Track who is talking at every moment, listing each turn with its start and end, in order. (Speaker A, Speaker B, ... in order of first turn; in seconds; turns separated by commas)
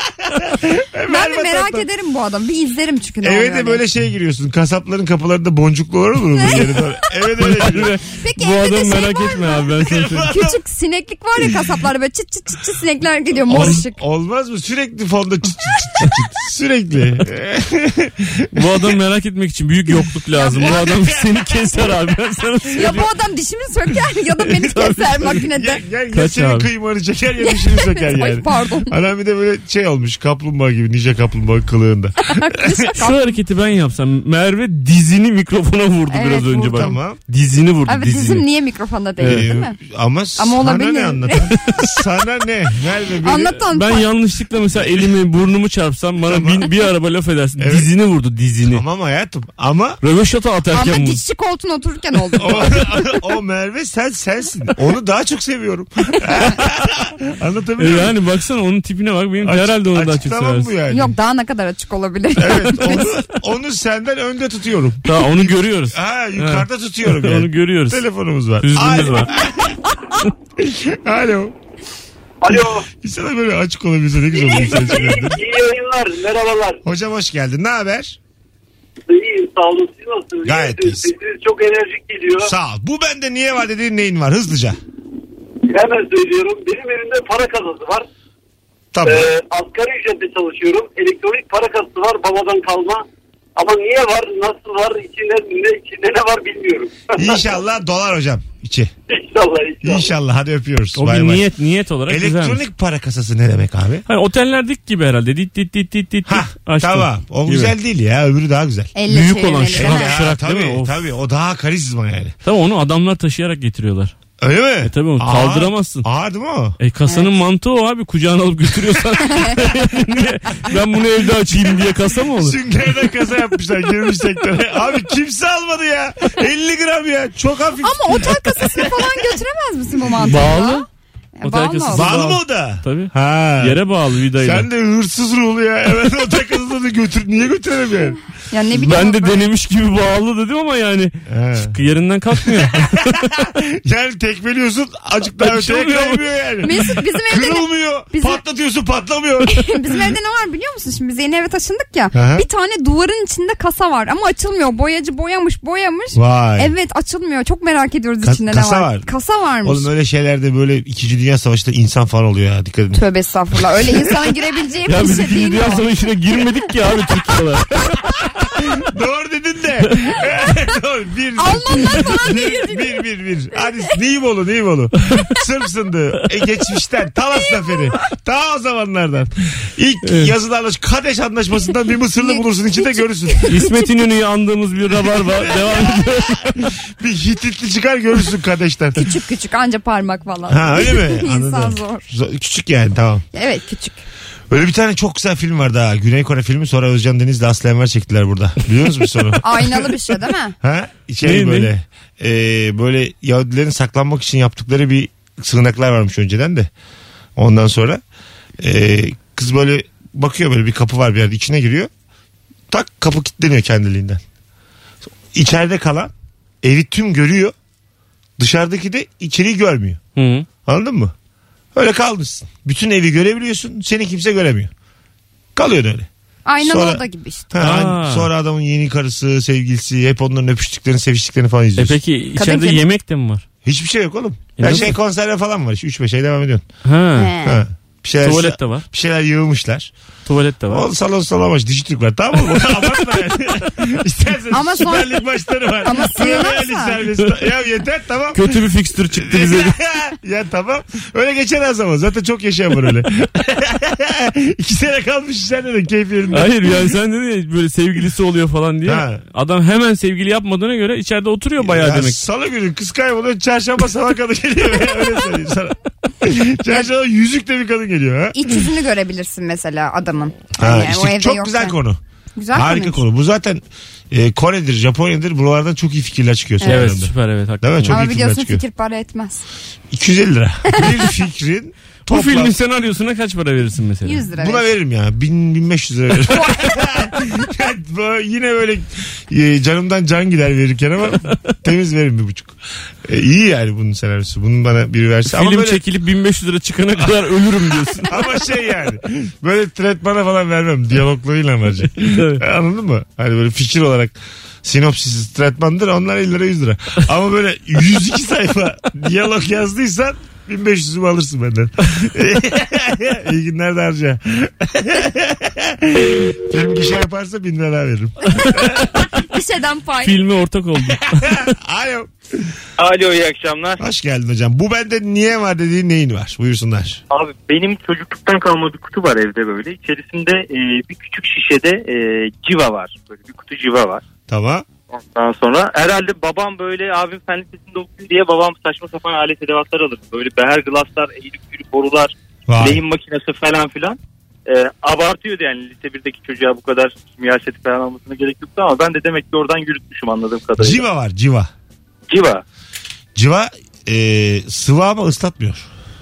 Speaker A: 0.2-1.9, Speaker B: 1.1-3.8, Speaker A: 3.2-7.9, Speaker B: 6.3-6.8, Speaker C: 7.4-10.3, Speaker B: 8.1-14.0, Speaker A: 9.8-10.6, Speaker A: 13.4-18.9, Speaker C: 13.5-13.8, Speaker C: 18.5-23.1, Speaker B: 20.4-20.8, Speaker A: 20.5-22.0, Speaker A: 22.7-23.1, Speaker B: 22.7-25.8, Speaker C: 24.6-25.3, Speaker A: 25.4-32.9, Speaker C: 26.1-26.7, Speaker B: 27.5-28.9, Speaker B: 32.2-33.3, Speaker C: 33.0-38.5, Speaker B: 36.1-37.0, Speaker A: 36.6-37.2, Speaker B: 37.9-39.7, Speaker C: 39.2-39.5, Speaker A: 39.2-43.6, Speaker B: 40.4-41.5, Speaker C: 41.6-41.8, Speaker B: 43.2-44.1, Speaker C: 43.7-48.8, Speaker A: 44.8-45.1, Speaker A: 46.2-46.9, Speaker A: 47.6-47.9, Speaker A: 48.6-50.0, Speaker C: 50.0-51.2, Speaker B: 50.7-53.1, Speaker A: 52.4-58.1, Speaker C: 57.8-60.7, Speaker A: 59.4-61.1, Speaker B: 60.9-63.1, Speaker A: 62.4-69.8, Speaker C: 65.0-68.0, Speaker C: 68.6-69.3, Speaker A: 70.6-71.5, Speaker D: 72.4-72.9, Speaker A: 72.5-75.4, Speaker D: 74.4-76.8, Speaker A: 76.8-78.2, Speaker D: 79.1-82.5, Speaker A: 80.4-81.1, Speaker A: 82.4-84.8, Speaker D: 85.6-88.1, Speaker A: 88.9-89.3, Speaker D: 89.0-93.0, Speaker D: 93.5-97.5, Speaker A: 97.1-98.9, Speaker D: 99.1-100.1, Speaker A: 99.8-101.4, Speaker C: 100.9-102.6, Speaker A: 102.1-104.0, Speaker C: 104.1-107.7, Speaker A: 106.2-108.9, Speaker B: 109.0-110.1, Speaker C: 109.1-111.0, Speaker A: 109.7-112.3, Speaker C: 112.4-114.1, Speaker A: 114.4-116.8, Speaker C: 114.8-116.1, Speaker C: 116.8-122.6, Speaker A: 121.4-129.4, Speaker B: 127.8-130.8, Speaker C: 130.2-130.8, Speaker B: 131.4-132.1, Speaker C: 131.4-134.7, Speaker A: 131.9-133.8, Speaker A: 134.4-138.2, Speaker B: 138.5-139.5, Speaker C: 138.7-143.3, Speaker A: 141.3-141.8, Speaker A: 142.4-150.1, Speaker C: 145.4-146.2, Speaker B: 146.6-148.4, Speaker B: 149.5-159.9, Speaker A: 152.1-152.4, Speaker A: 156.1-156.7, Speaker A: 158.2-159.1, Speaker A: 159.6-163.0, Speaker B: 162.9-165.8, Speaker A: 163.6-164.3, Speaker C: 164.8-168.0, Speaker A: 168.6-183.6, Speaker B: 171.4-173.0, Speaker B: 173.6-173.9, Speaker C: 180.0-180.3, Speaker B: 182.2-183.7, Speaker C: 183.5-186.7, Speaker A: 185.1-189.1, Speaker B: 188.9-192.0, Speaker A: 190.5-193.2, Speaker B: 193.3-194.0, Speaker A: 194.5-199.9, Speaker B: 199.4-200.5, Speaker A: 200.6-206.7, Speaker C: 201.2-201.7, Speaker A: 207.4-208.0, Speaker A: 208.6-211.9, Speaker A: 212.7-214.2, Speaker A: 215.3-217.5, Speaker A: 218.4-220.0, Speaker C: 220.2-220.5, Speaker A: 220.6-221.1, Speaker A: 221.7-224.7, Speaker A: 225.5-226.1, Speaker B: 226.4-227.5, Speaker A: 226.6-232.0, Speaker C: 227.6-228.3, Speaker C: 231.8-233.4, Speaker B: 232.4-232.8, Speaker A: 233.6-236.6, Speaker C: 234.6-234.9, Speaker C: 236.8-237.3, Speaker B: 237.2-237.6, Speaker A: 237.4-239.9, Speaker C: 238.2-238.8, Speaker C: 240.2-240.8, Speaker A: 240.7-256.9, Speaker C: 242.4-243.0, Speaker B: 244.5-245.2, Speaker B: 245.8-247.0, Speaker C: 248.3-249.8, Speaker C: 256.3-262.2, Speaker A: 258.8-259.2, Speaker A: 261.6-268.6, Speaker B: 268.3-271.8, Speaker A: 270.6-272.0, Speaker B: 272.3-273.0, Speaker A: 272.5-278.6, Speaker C: 276.6-278.0, Speaker B: 277.9-279.4, Speaker A: 279.9-282.6, Speaker C: 282.1-284.3, Speaker B: 284.0-284.7, Speaker A: 284.3-295.8, Speaker B: 286.3-287.1, Speaker C: 295.3-298.2, Speaker A: 297.9-318.9, Speaker C: 302.1-302.4, Speaker C: 318.2-319.0, Speaker B: 319.1-320.2, Speaker C: 320.0-321.5, Speaker A: 320.9-322.5, Speaker E: 322.8-323.8, Speaker A: 323.8-327.0, Speaker E: 327.1-334.0, Speaker A: 334.3-334.6, Speaker E: 334.9-350.8, Speaker A: 342.5-342.8, Speaker A: 350.6-351.5, Speaker E: 352.1-352.4, Speaker A: 353.1-355.7